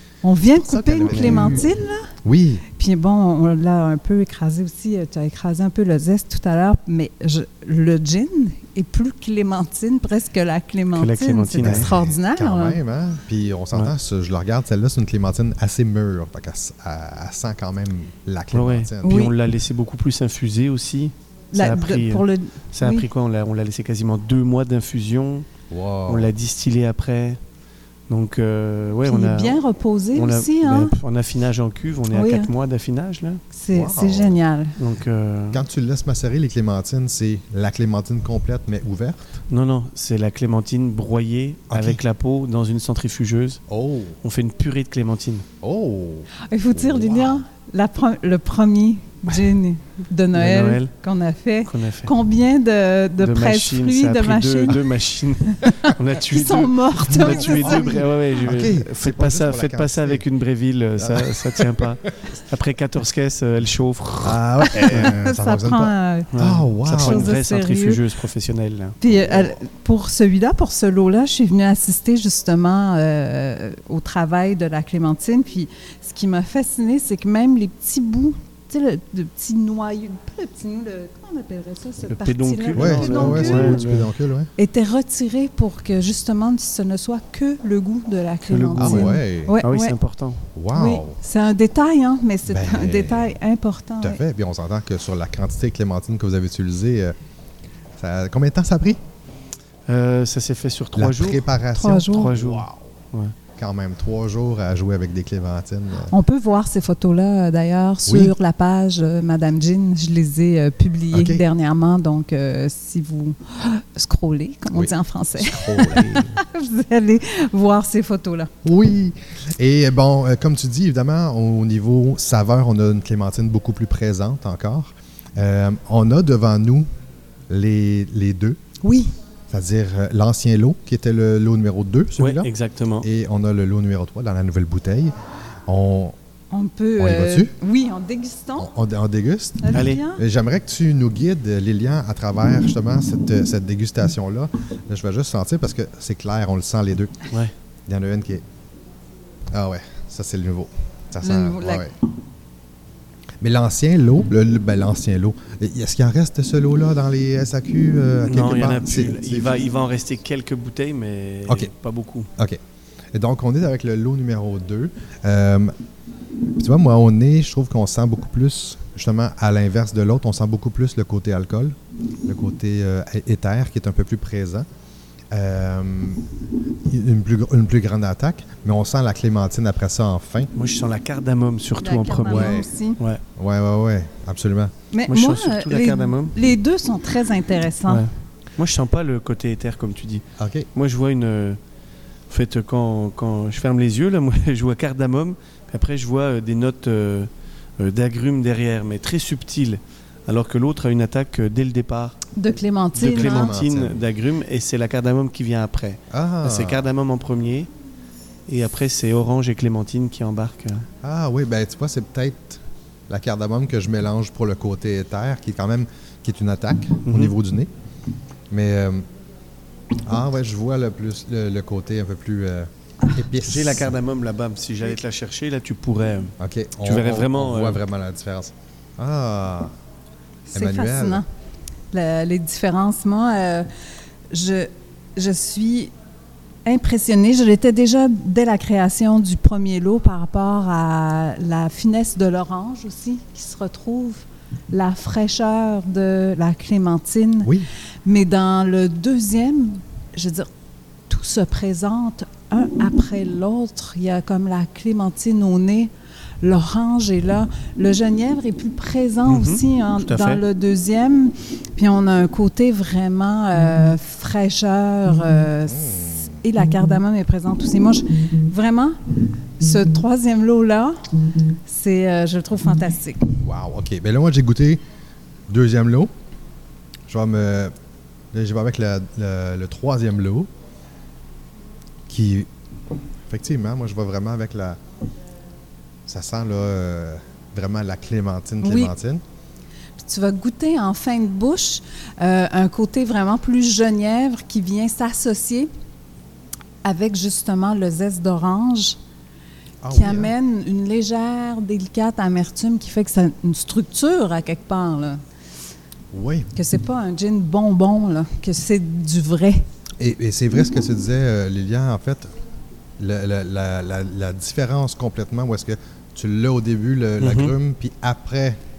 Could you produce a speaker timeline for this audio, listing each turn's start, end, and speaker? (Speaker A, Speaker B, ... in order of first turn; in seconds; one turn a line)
Speaker A: 0.2-2.1
Speaker B: 0.6-1.7
Speaker C: 1.1-1.5
Speaker B: 2.2-2.6
Speaker A: 2.7-12.8
Speaker C: 10.9-11.9
Speaker B: 11.6-19.2
Speaker C: 18.5-25.5
Speaker A: 19.0-19.3
Speaker A: 21.5-23.1
Speaker B: 25.7-26.3
Speaker C: 26.1-27.4
Speaker C: 28.1-29.6
Speaker A: 29.0-31.0
Speaker C: 30.1-33.4
Speaker A: 32.1-32.5
Speaker A: 33.5-34.7
Speaker B: 33.7-34.4
Speaker C: 34.8-35.6
Speaker B: 35.5-39.4
Speaker C: 39.5-43.6
Speaker B: 41.7-42.0
Speaker B: 43.7-44.2
Speaker C: 44.2-45.5
Speaker B: 45.6-47.4
Speaker A: 46.4-54.8
Speaker C: 50.3-50.9
Speaker C: 51.6-52.1
Speaker C: 53.2-65.1
Speaker A: 55.5-58.4
Speaker B: 57.1-60.2
Speaker B: 61.0-62.4
Speaker B: 64.2-67.3
Speaker A: 64.6-66.3
Speaker C: 66.3-69.0
Speaker A: 66.9-68.0
Speaker A: 69.0-83.8
Speaker B: 69.0-69.5
Speaker C: 82.1-84.1
Speaker B: 82.7-84.5
Speaker A: 84.6-89.9
Speaker C: 88.5-90.5
Speaker B: 88.8-89.6
Speaker B: 90.5-91.2
Speaker A: 90.7-94.2
Speaker B: 92.5-93.3
Speaker B: 94.0-97.1
Speaker B: 98.0-99.0
Speaker C: 99.9-101.5
Speaker B: 101.0-102.9
Speaker A: 101.7-102.3
Speaker C: 102.0-103.3
Speaker B: 103.5-106.1
Speaker A: 106.1-118.5
Speaker B: 108.1-108.3
Speaker B: 111.1-111.4
Speaker B: 114.7-116.3
Speaker B: 118.6-126.9
Speaker B: 127.5-128.6
Speaker A: 128.8-129.1
Speaker B: 129.5-132.5
Speaker C: 132.2-133.1
Speaker B: 133.0-135.1
Speaker B: 135.7-136.2
Speaker A: 136.5-138.7
Speaker B: 137.0-137.5
Speaker B: 138.6-147.2
Speaker A: 139.6-140.2
Speaker C: 139.7-140.0
Speaker B: 147.9-148.4
Speaker B: 149.5-151.9
Speaker A: 151.2-151.9
Speaker B: 153.4-159.7
Speaker C: 158.3-162.3
Speaker B: 161.4-161.7
Speaker B: 163.1-165.7
Speaker B: 166.6-174.7
Speaker B: 175.3-176.2
Speaker B: 176.8-180.5
Speaker C: 180.5-183.2
Speaker A: 181.8-183.0
Speaker B: 182.3-182.7
Speaker B: 183.4-184.7
Speaker A: 184.9-188.1
Speaker C: 185.1-186.3
Speaker C: 187.9-190.2
Speaker B: 190.4-190.7
Speaker C: 190.7-191.6
Speaker C: 192.3-202.2
Speaker A: 202.3-203.5
Speaker B: 202.9-204.0
Speaker C: 203.0-207.7
Speaker B: 206.1-206.9
Speaker C: 208.5-210.9
Speaker B: 211.0-217.7
Speaker C: 217.1-217.3
Speaker B: 218.5-219.0
Speaker B: 220.0-223.9
Speaker C: 223.4-227.8
Speaker B: 226.4-229.7
Speaker A: 230.5-231.3
Speaker B: 230.5-231.2
Speaker A: 231.9-233.7
Speaker A: 234.3-235.9
Speaker A: 236.7-247.5
Speaker A: 248.0-250.5
Speaker A: 251.1-255.9
Speaker A: 256.4-269.0
Speaker C: 259.3-260.4
Speaker B: 265.7-266.4
Speaker A: 269.6-271.1
Speaker A: 271.6-273.3
Speaker B: 273.4-274.8
Speaker B: 275.5-276.1
Speaker B: 277.1-277.7
Speaker B: 278.3-280.5
Speaker B: 282.1-282.5
Speaker B: 283.3-284.8
Speaker B: 286.1-289.2
Speaker A: 288.6-288.9
Speaker A: 290.0-295.7
Speaker A: 296.8-299.0
Speaker B: 299.8-300.3
Speaker A: 299.9-305.2
Speaker B: 306.1-306.5
Speaker A: 306.5-309.6
Speaker B: 310.0-312.3
Speaker B: 313.0-318.6
Speaker C: 317.2-317.5